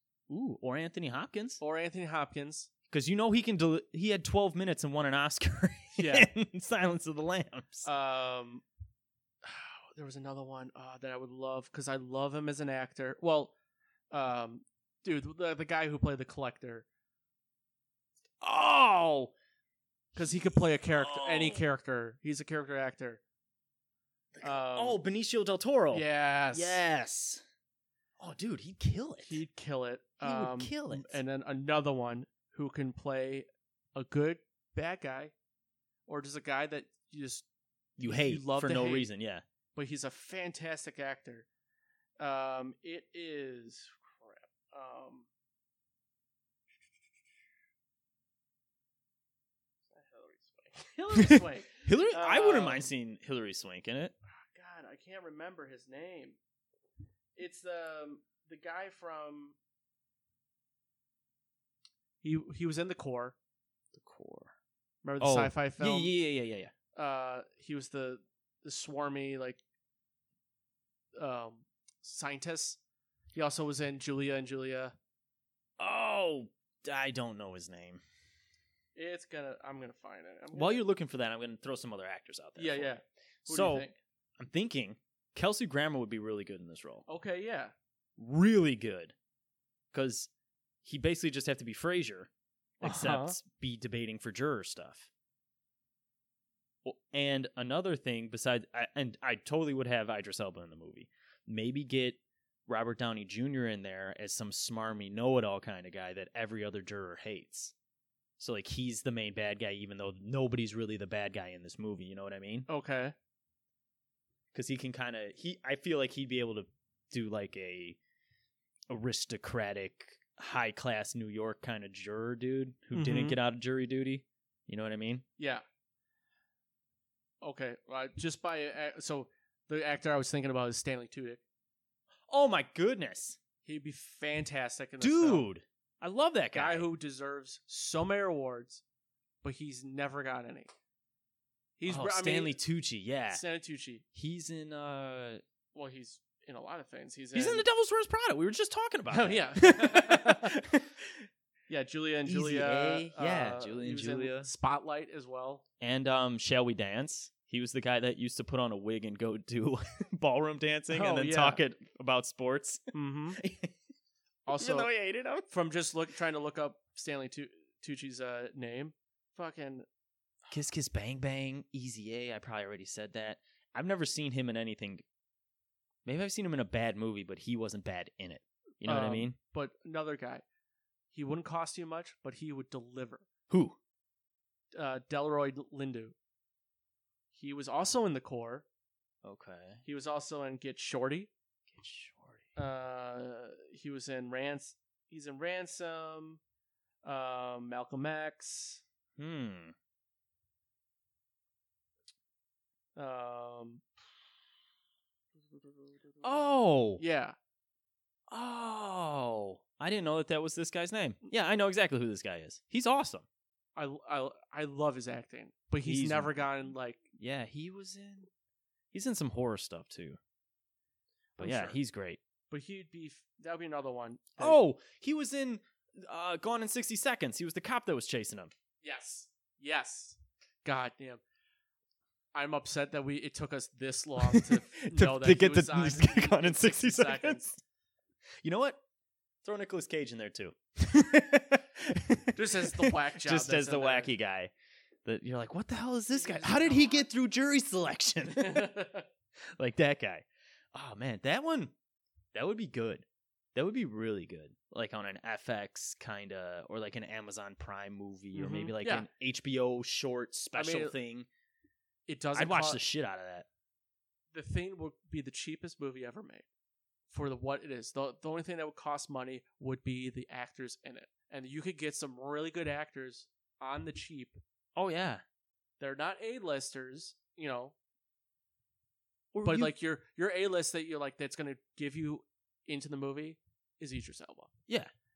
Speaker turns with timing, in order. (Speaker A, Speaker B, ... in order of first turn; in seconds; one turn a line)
Speaker A: 0.3-1.6
Speaker B: 1.6-2.7
Speaker A: 2.9-7.9
Speaker B: 6.0-6.3
Speaker B: 7.8-8.6
Speaker B: 9.4-13.5
Speaker B: 14.1-16.9
Speaker A: 18.4-19.3
Speaker A: 20.1-21.6
Speaker B: 20.1-23.2
Speaker A: 24.3-27.4
Speaker B: 24.4-25.0
Speaker B: 25.9-26.8
Speaker A: 28.2-29.4
Speaker B: 29.2-35.3
Speaker A: 30.2-31.2
Speaker B: 36.1-37.5
Speaker A: 38.0-39.4
Speaker B: 38.1-39.1
Speaker B: 39.7-41.5
Speaker B: 42.2-45.3
Speaker B: 49.9-52.8
Speaker A: 51.2-54.1
Speaker B: 54.5-56.4
Speaker B: 57.4-59.6
Speaker B: 62.2-63.4
Speaker A: 63.9-64.5
Speaker B: 65.0-66.2
Speaker A: 65.2-66.7
Speaker B: 66.9-69.6
Speaker B: 71.1-72.8
Speaker B: 73.3-75.0
Speaker A: 75.8-78.0
Speaker B: 78.9-80.8
Speaker A: 80.5-82.9
Speaker B: 82.6-84.0
Speaker A: 83.5-87.0
Speaker B: 87.1-87.7
Speaker A: 88.2-89.1
Speaker A: 89.9-90.3
Speaker A: 90.8-92.3
Speaker A: 92.8-95.1
Speaker B: 92.8-93.4
Speaker A: 96.8-107.7
Speaker A: 108.4-112.7
Speaker B: 112.7-113.1
Speaker A: 114.5-118.0
Speaker A: 118.9-125.2
Speaker B: 122.9-123.4
Speaker B: 125.4-125.6
Speaker B: 127.4-131.4
Speaker A: 132.3-133.4
Speaker B: 133.6-135.5
Speaker A: 135.0-136.9
Speaker B: 136.5-138.8
Speaker B: 139.4-140.7
Speaker B: 141.8-142.6
Speaker A: 141.9-143.4
Speaker B: 143.3-144.0
Speaker A: 144.1-145.4
Speaker B: 145.7-147.6
Speaker A: 147.3-151.3
Speaker B: 149.1-150.6
Speaker B: 151.7-155.6
Speaker A: 152.2-154.5
Speaker A: 155.8-162.8
Speaker B: 160.9-161.6
Speaker B: 162.9-163.4
Speaker A: 163.4-163.7
Speaker B: 164.4-164.9
Speaker A: 164.5-165.5
Speaker B: 165.5-169.8
Speaker A: 170.5-175.0
Speaker A: 176.0-179.4
Speaker B: 178.8-180.4
Speaker B: 181.1-183.3
Speaker A: 183.5-183.8
Speaker B: 184.7-186.1
Speaker B: 187.3-188.7
Speaker A: 189.2-189.8
Speaker B: 189.8-191.3
Speaker A: 191.7-192.5
Speaker B: 192.6-196.4
Speaker B: 197.0-198.8
Speaker A: 199.2-199.7
Speaker B: 202.9-203.9
Speaker B: 205.5-206.4
Speaker A: 206.2-207.0
Speaker B: 207.0-207.3
Speaker A: 208.3-213.3
Speaker B: 213.8-217.0
Speaker A: 215.8-218.3
Speaker A: 218.9-220.2
Speaker B: 221.4-221.8
Speaker A: 221.4-222.2
Speaker B: 222.5-224.6
Speaker A: 224.4-228.5
Speaker B: 228.8-231.2
Speaker B: 232.3-237.5
Speaker A: 234.2-237.6
Speaker A: 238.4-238.8
Speaker A: 239.4-244.5
Speaker B: 242.3-244.1
Speaker A: 245.0-248.7
Speaker B: 246.1-247.1
Speaker B: 248.3-249.1
Speaker A: 249.6-251.7
Speaker A: 252.3-261.3
Speaker B: 258.3-259.1
Speaker B: 260.5-260.9
Speaker B: 262.1-262.8
Speaker A: 262.3-263.4
Speaker B: 264.3-266.4
Speaker B: 267.1-274.4
Speaker A: 274.8-275.2
Speaker B: 275.8-277.7
Speaker A: 279.3-279.7
Speaker B: 279.4-284.5